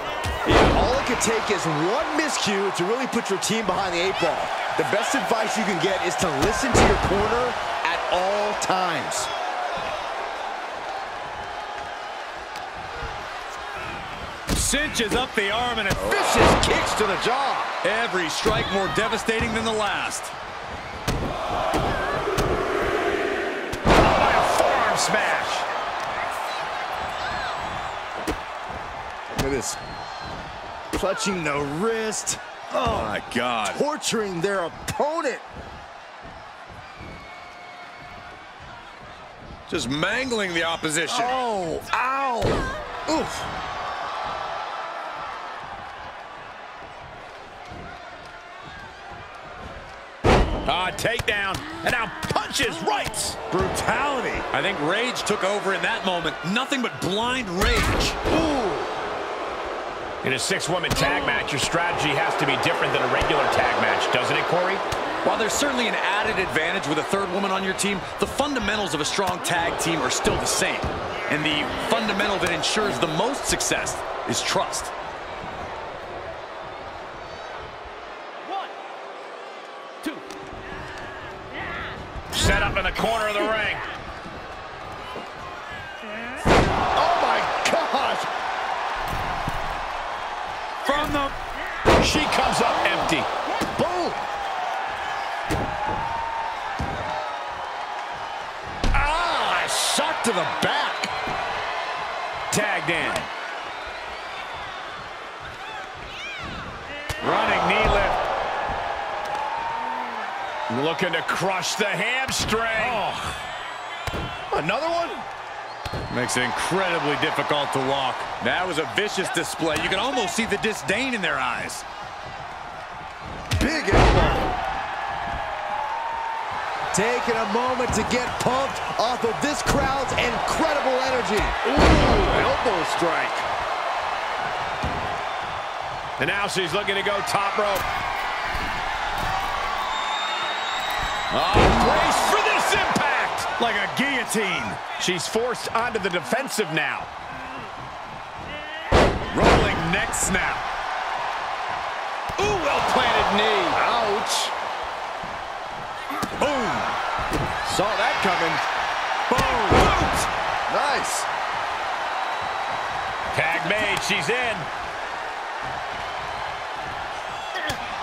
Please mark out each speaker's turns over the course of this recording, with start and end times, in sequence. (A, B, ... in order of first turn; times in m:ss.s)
0:00.4-0:09.3 A
0:14.5-0:16.3 B
0:16.0-0:17.7 A
0:17.8-0:20.3 B
0:23.9-0:25.7 C
0:29.3-0:29.8 A
0:30.9-0:33.2 A
0:32.8-0:33.8 B
0:33.7-0:35.4 A
0:39.7-0:41.4 B
0:41.1-0:43.5 A
0:50.6-0:53.4 C
0:53.5-0:58.2 B
0:53.7-0:54.4 A
0:58.3-0:58.9 A
1:00.2-1:04.8 C
1:05.2-1:14.9 B
1:22.3-1:23.8 C
1:27.0-1:28.3 A
1:30.8-1:31.3 B
1:32.0-1:33.3 C
1:33.8-1:34.2 A
1:38.9-1:41.1 A
1:42.5-1:43.3 C
1:47.2-1:48.2 B
1:50.7-1:53.0 C
1:52.8-1:53.3 A
1:54.5-1:55.2 A
1:56.1-2:01.8 B
2:03.6-2:04.5 A
2:06.9-2:13.5 A
2:16.2-2:17.9 C
2:21.3-2:22.1 B
2:21.4-2:23.5 C
2:23.5-2:24.8 B
2:25.0-2:27.1 C
2:29.3-2:30.6 B
2:32.4-2:33.8 C
2:33.8-2:34.5 A
2:36.4-2:37.0 B
2:37.6-2:38.6 A
2:39.3-2:40.2 B
2:40.7-2:41.3 A
2:43.3-2:44.7 C